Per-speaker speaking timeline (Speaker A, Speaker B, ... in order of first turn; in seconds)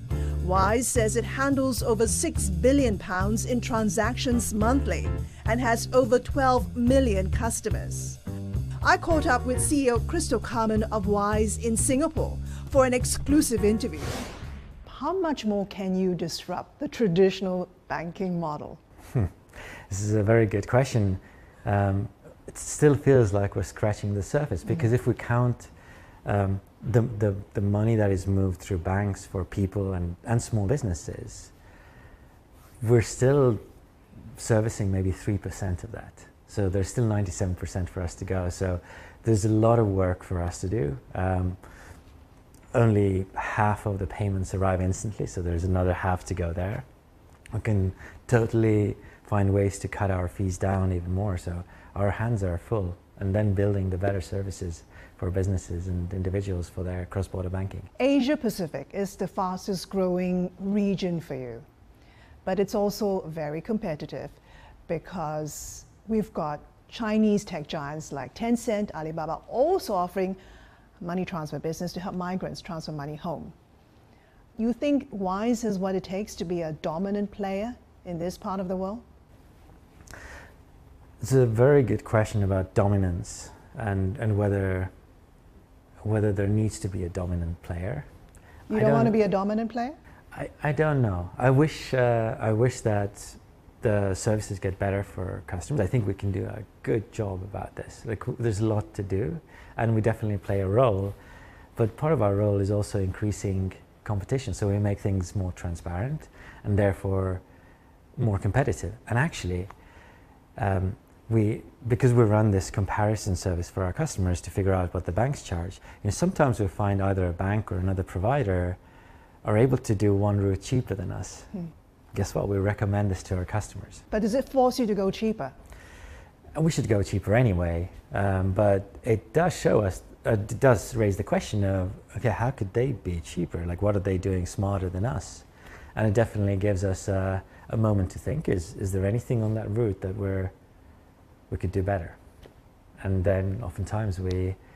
Speaker A: 0.4-8.2, 8.8-14.2, 14.9-18.8, 58.0-61.6, 62.5-70.4, 71.0-73.5, 74.6-79.0, 88.7-90.0, 124.1-125.5
Speaker B: 19.9-25.7, 26.2-31.5, 32.8-33.6, 34.4-41.7, 42.7-46.9, 47.5-57.9, 81.2-84.9, 86.0-88.1, 88.7-89.2, 90.3-101.2, 101.8-107.4, 108.2-109.7, 110.6-118.8, 119.4-121.6, 122.1-124.0, 126.5-140.5, 141.5-142.2, 143.0-144.6